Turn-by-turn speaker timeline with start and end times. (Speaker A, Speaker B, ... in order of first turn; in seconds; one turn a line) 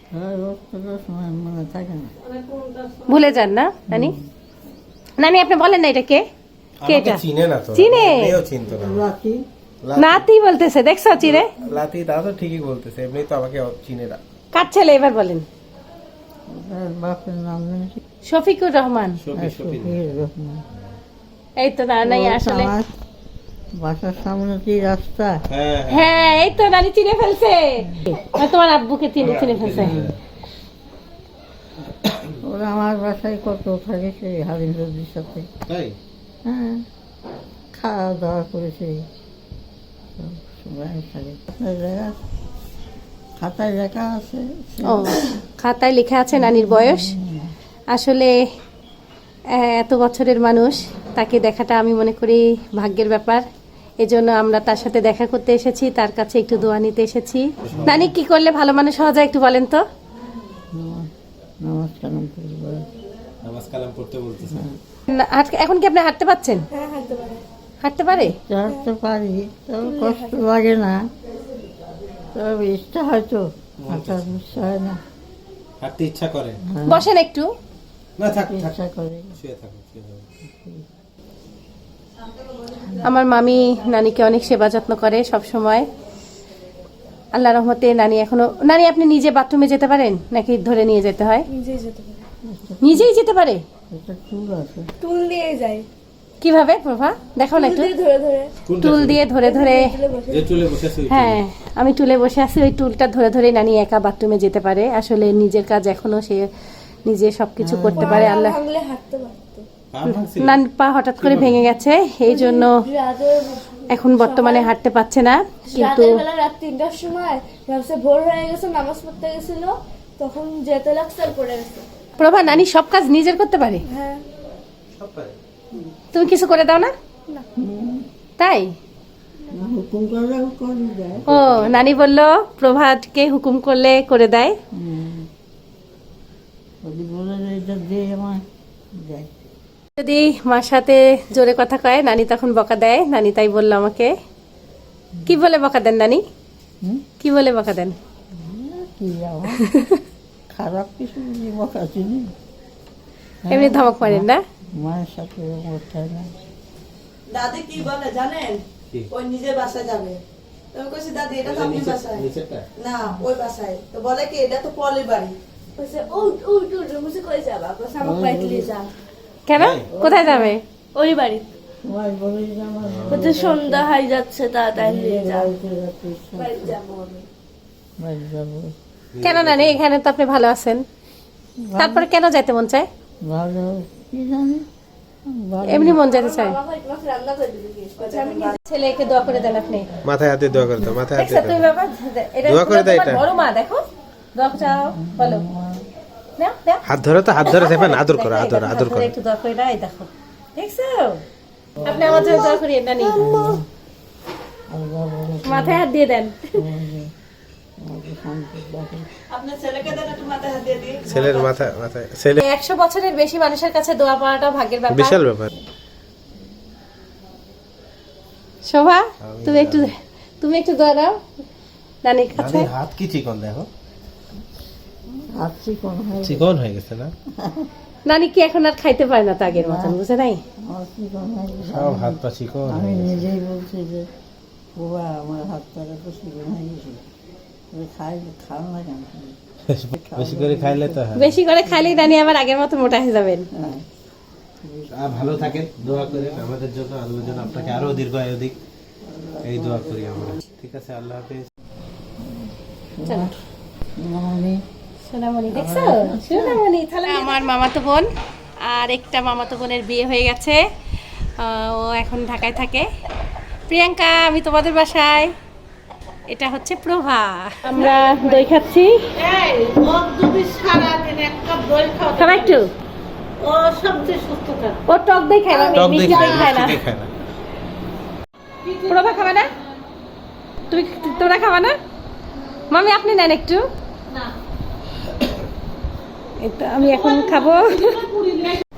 Speaker A: 0.1-2.1
Speaker B: 2.2-3.4
Speaker C: 3.1-4.2
Speaker A: 3.9-4.3
Speaker C: 5.2-6.2
Speaker D: 6.8-9.1
Speaker C: 6.8-8.4
Speaker A: 8.7-9.4
Speaker D: 9.8-10.3
Speaker C: 10.0-11.5
Speaker D: 11.2-14.2
Speaker C: 14.5-15.4
Speaker A: 16.5-18.0
Speaker C: 18.2-19.2
Speaker D: 19.2-20.0
Speaker A: 19.3-20.7
Speaker C: 21.6-22.7
Speaker A: 22.0-22.9
Speaker A: 23.8-25.4
Speaker D: 25.5-26.5
Speaker C: 25.9-30.0
Speaker D: 29.2-30.2
Speaker A: 29.7-30.1
Speaker D: 32.0-32.4
Speaker A: 32.4-35.5
Speaker D: 35.7-36.0
Speaker A: 36.5-36.8
Speaker A: 37.7-39.0
Speaker A: 40.2-42.2
Speaker A: 43.4-45.2
Speaker C: 44.8-47.1
Speaker A: 46.3-47.5
Speaker C: 47.9-48.3
Speaker C: 49.5-53.4
Speaker C: 54.0-59.8
Speaker D: 57.6-58.1
Speaker A: 57.7-58.1
Speaker A: 60.7-61.1
Speaker A: 61.6-62.9
Speaker D: 63.4-64.7
Speaker A: 64.5-64.8
Speaker C: 65.1-66.6
Speaker E: 66.7-67.4
Speaker C: 67.8-68.3
Speaker E: 68.2-68.8
Speaker A: 68.3-71.0
Speaker E: 69.8-70.5
Speaker A: 72.2-75.0
Speaker D: 73.8-74.7
Speaker D: 75.8-76.6
Speaker A: 76.7-77.1
Speaker C: 76.9-77.5
Speaker D: 78.2-78.8
Speaker A: 78.2-79.4
Speaker D: 79.3-80.2
Speaker A: 80.5-80.8
Speaker C: 83.0-85.8
Speaker C: 87.3-91.5
Speaker E: 91.5-92.2
Speaker A: 92.5-93.1
Speaker C: 92.8-93.6
Speaker A: 93.9-94.9
Speaker E: 95.0-95.8
Speaker C: 96.4-97.9
Speaker E: 97.5-98.5
Speaker D: 98.7-99.3
Speaker C: 98.8-99.9
Speaker E: 99.4-100.5
Speaker D: 100.3-101.4
Speaker C: 101.1-106.5
Speaker C: 107.0-108.5
Speaker A: 107.6-108.3
Speaker E: 108.0-109.6
Speaker D: 109.9-110.6
Speaker C: 110.1-112.8
Speaker D: 111.2-111.6
Speaker E: 112.2-114.7
Speaker C: 113.9-116.2
Speaker E: 115.7-121.9
Speaker C: 122.2-123.8
Speaker E: 123.9-124.2
Speaker D: 124.9-125.3
Speaker C: 126.1-126.9
Speaker A: 127.6-128.1
Speaker C: 128.4-128.7
Speaker A: 129.5-131.3
Speaker D: 131.2-131.8
Speaker C: 131.3-134.6
Speaker A: 134.7-135.3
Speaker A: 136.8-138.4
Speaker A: 139.0-139.3
Speaker C: 140.0-144.1
Speaker C: 145.2-146.2
Speaker C: 147.2-147.9
Speaker A: 148.3-149.6
Speaker C: 149.6-150.0
Speaker A: 150.5-152.3
Speaker A: 153.4-154.3
Speaker C: 153.5-154.4
Speaker A: 154.8-156.3
Speaker F: 157.3-160.2
Speaker F: 160.7-162.2
Speaker D: 161.4-162.7
Speaker F: 162.8-165.3
Speaker E: 165.8-168.9
Speaker A: 168.0-168.7
Speaker C: 169.5-170.6
Speaker D: 169.6-169.9
Speaker A: 169.9-170.5
Speaker E: 170.9-171.5
Speaker A: 171.8-173.9
Speaker D: 172.9-173.4
Speaker E: 173.1-175.5
Speaker A: 174.7-176.8
Speaker E: 176.3-177.2
Speaker A: 178.0-178.7
Speaker D: 179.1-179.8
Speaker C: 179.2-180.8
Speaker A: 181.6-182.1
Speaker C: 181.8-182.9
Speaker A: 183.3-184.7
Speaker A: 185.3-186.0
Speaker C: 185.6-186.6
Speaker E: 185.9-188.6
Speaker F: 188.0-188.6
Speaker C: 188.6-189.9
Speaker D: 190.0-191.6
Speaker A: 190.6-190.9
Speaker C: 191.1-193.8
Speaker D: 192.4-193.2
Speaker C: 194.3-195.4
Speaker A: 194.6-195.8
Speaker C: 196.4-196.8
Speaker D: 196.9-199.1
Speaker C: 197.4-201.2
Speaker A: 201.8-202.4
Speaker C: 201.8-203.2
Speaker A: 203.1-203.6
Speaker A: 204.7-205.8
Speaker C: 205.4-206.6
Speaker A: 206.6-207.1
Speaker A: 207.8-209.1
Speaker F: 209.3-211.6
Speaker D: 211.1-212.4
Speaker C: 212.4-215.2
Speaker D: 214.9-215.5
Speaker C: 218.7-221.2
Speaker D: 219.2-219.9
Speaker C: 222.0-222.7
Speaker D: 222.3-223.7
Speaker A: 225.3-226.5
Speaker D: 226.2-227.1
Speaker A: 227.4-227.7
Speaker C: 228.1-230.4
Speaker A: 229.5-230.0
Speaker A: 230.7-234.1
Speaker D: 231.7-233.2
Speaker A: 234.8-237.1
Speaker A: 237.7-239.4
Speaker D: 239.7-241.3
Speaker A: 239.9-241.0
Speaker C: 241.1-243.4
Speaker A: 241.6-242.1
Speaker A: 243.6-243.8
Speaker A: 244.6-246.5
Speaker D: 244.9-248.6
Speaker A: 247.2-248.1
Speaker A: 249.0-250.4
Speaker D: 249.4-251.4
Speaker A: 252.2-253.3
Speaker C: 253.1-253.3
Speaker A: 254.0-254.6
Speaker C: 255.1-258.1
Speaker A: 255.5-256.6
Speaker C: 258.6-260.6
Speaker C: 261.4-262.9
Speaker C: 263.7-265.3
Speaker C: 266.3-269.0
Speaker B: 267.7-268.4
Speaker B: 269.2-272.6
Speaker C: 272.2-272.7
Speaker B: 273.4-274.8
Speaker C: 274.9-276.8
Speaker B: 275.5-276.7
Speaker D: 275.7-277.1
Speaker B: 278.6-279.4
Speaker C: 278.9-279.5
Speaker C: 280.7-281.8
Speaker C: 282.7-283.7
Speaker C: 286.4-288.0
Speaker B: 286.8-288.6